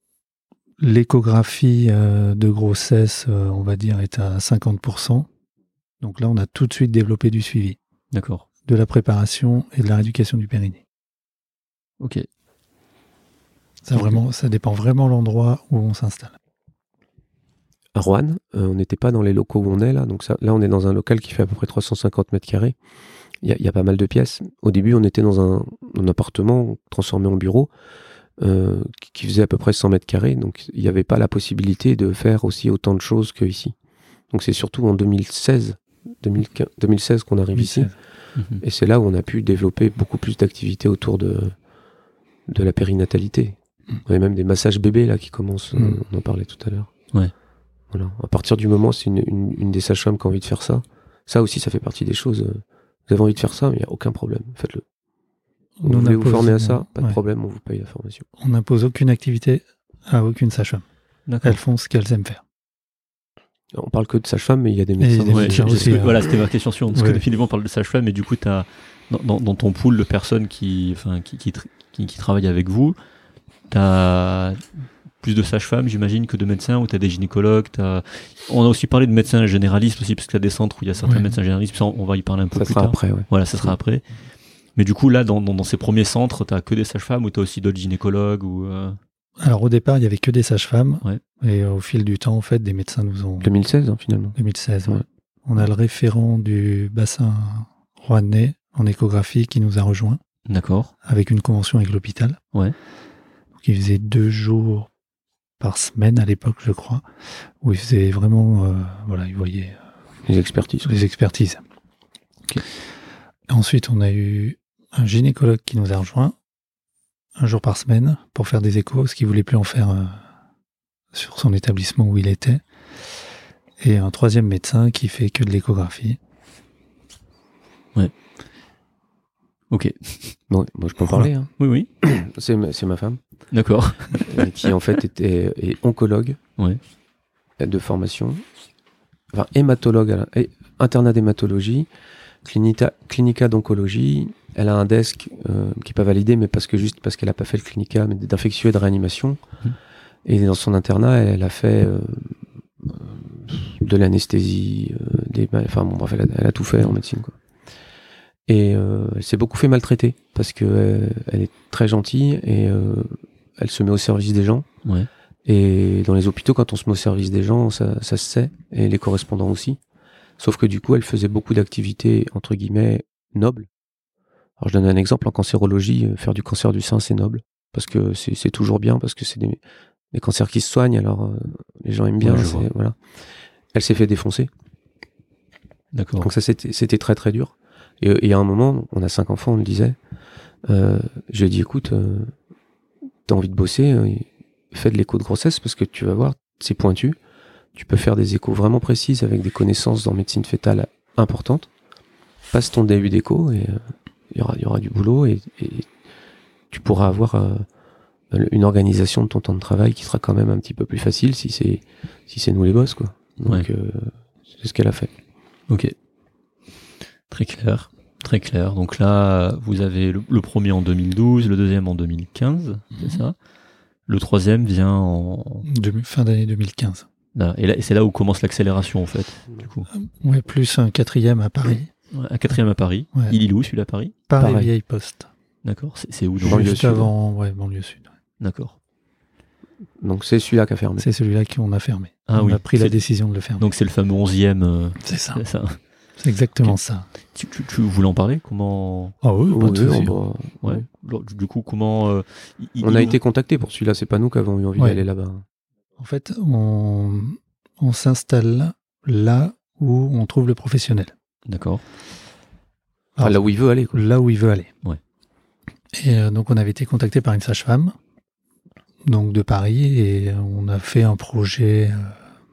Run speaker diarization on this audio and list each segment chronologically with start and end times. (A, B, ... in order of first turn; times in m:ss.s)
0:00.8-0:05.3 A
0:06.0-0:07.8 A
0:08.1-0:08.4 B
0:08.7-0:10.8 A
0:12.0-0:12.2 B
0:13.8-0:16.4 A
0:17.9-0:22.8 C
0:23.4-0:27.7 C
0:28.4-0:33.7 C
0:34.3-0:37.9 C
0:37.5-0:37.9 A
0:38.4-0:38.6 B
0:38.6-0:41.5 C
0:42.5-0:46.9 C
0:47.9-0:54.8 C
0:55.8-0:57.2 A
0:55.8-0:58.2 C
0:58.4-1:00.8 A
1:01.3-1:01.6 B
1:01.4-1:02.4 A
1:03.7-1:06.0 C
1:05.0-1:06.3 A
1:05.3-1:13.0 B
1:06.9-1:07.2 A
1:13.7-1:14.6 B
1:15.2-1:24.0 B
1:21.0-1:21.3 A
1:22.5-1:23.7 C
1:24.8-1:29.0 B
1:29.4-1:33.5 A
1:33.4-1:34.4 C
1:34.3-1:40.2 A
1:40.5-1:40.9 B
1:41.0-1:42.4 A
1:43.6-1:44.9 A
1:45.6-1:47.0 A
1:47.6-1:49.8 A
1:50.2-1:50.9 C
1:50.8-1:51.6 A
1:53.5-1:56.3 A
1:57.4-2:00.2 A
2:01.1-2:02.6 A
2:03.8-2:06.2 A
2:09.7-2:10.4 B
2:10.5-2:11.5 C
2:11.6-2:11.9 B
2:12.0-2:13.2 C
2:13.5-2:14.5 B
2:14.2-2:16.4 C
2:17.6-2:18.4 C
2:19.3-2:21.9 C
2:22.4-2:29.4 C
2:30.2-2:37.4 C
2:38.5-2:44.7 C
2:45.4-2:49.8 C
2:50.4-2:53.7 C
2:54.6-2:59.6 C
3:00.1-3:03.0 C
3:02.2-3:02.7 B
3:03.7-3:04.5 C
3:05.9-3:06.3 B
3:06.2-3:10.0 C
3:10.6-3:12.3 C
3:13.3-3:17.2 C
3:17.7-3:21.7 C
3:22.5-3:25.9 C
3:26.7-3:27.6 C
3:28.3-3:35.1 C
3:35.7-3:35.9 B
3:37.3-3:43.3 B
3:44.1-3:45.6 B
3:45.6-3:47.0 A
3:47.3-3:49.9 B
3:49.9-3:51.9 A
3:52.1-3:54.7 B
3:54.3-3:55.3 A
3:55.6-3:56.8 B
3:56.4-3:58.1 A
3:56.4-3:57.1 C
3:58.4-3:58.7 B
4:00.0-4:01.0 C
4:01.0-4:03.7 A
4:02.3-4:03.0 B
4:03.6-4:05.8 B
4:05.0-4:05.4 A
4:06.2-4:07.1 A
4:07.3-4:09.2 B
4:09.2-4:10.1 A
4:09.5-4:10.8 C
4:10.6-4:13.2 B
4:12.8-4:15.4 C
4:14.8-4:15.0 A
4:16.0-4:21.1 A
4:21.5-4:21.8 B
4:23.2-4:24.7 A
4:23.2-4:24.0 C
4:25.9-4:27.9 A
4:29.1-4:32.1 A